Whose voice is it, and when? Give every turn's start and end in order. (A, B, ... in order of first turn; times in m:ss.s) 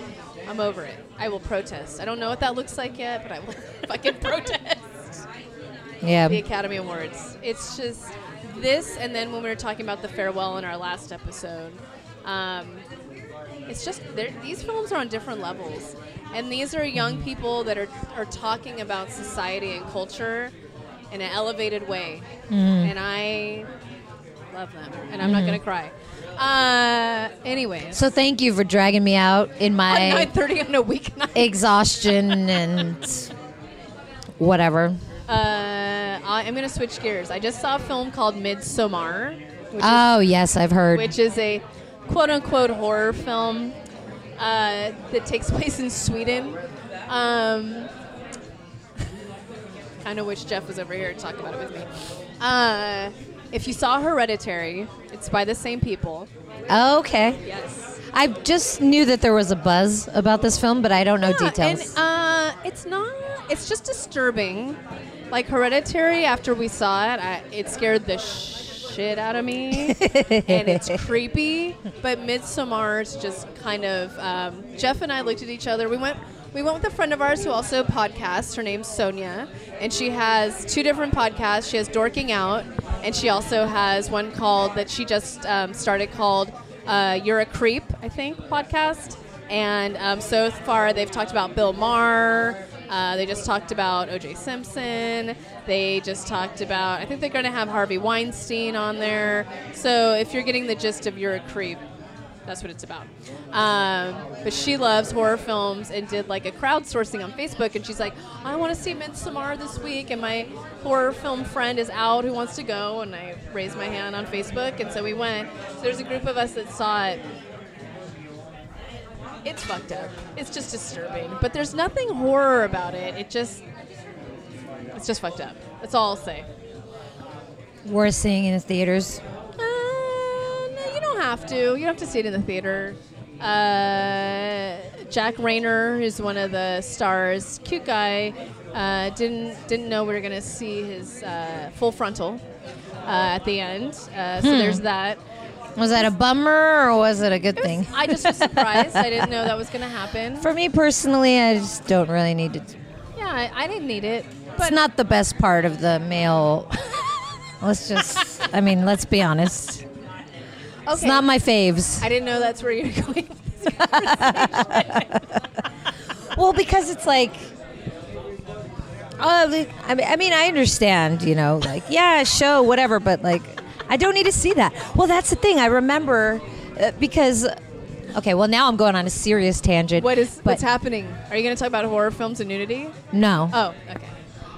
0:00.5-0:05.2 A
0:06.0-0:06.4 B
0:06.3-0:12.8 A
0:13.7-0:20.5 A
0:21.1-0:22.3 A
0:22.5-0:22.9 B
0:22.8-0:23.7 A
0:24.5-0:28.0 A
0:25.2-0:25.6 B
0:27.9-0:30.3 B
0:29.9-0:31.6 A
0:31.4-0:33.3 B
0:34.4-0:35.0 B
0:35.3-0:40.1 A
0:39.8-0:41.1 B
0:40.9-0:43.8 A
0:44.4-0:47.9 A
0:50.0-0:51.9 A
0:52.4-0:56.3 A
0:56.7-0:57.4 B
0:57.4-0:58.0 A
0:58.1-1:02.0 B
1:01.2-1:04.8 A
1:05.3-1:41.8 A
1:09.7-1:11.0 B
1:42.5-1:57.2 A
1:59.4-2:03.6 A
2:04.9-2:06.5 A
2:07.8-2:09.2 B
2:09.6-2:22.4 A
2:23.1-2:25.2 A
2:24.4-2:24.8 B
2:25.8-2:29.3 B
2:27.6-2:30.5 A
2:30.4-2:32.7 B
2:33.2-2:34.8 A
2:34.6-2:36.8 B
2:37.6-2:39.8 B
2:40.9-2:41.3 A
2:40.9-2:42.1 B
2:42.0-2:45.3 A
2:43.8-2:45.2 B
2:46.3-2:47.5 B
2:49.2-2:57.5 B
2:58.1-3:00.6 B
3:00.0-3:03.0 A
3:03.1-3:03.6 B
3:03.5-3:04.1 A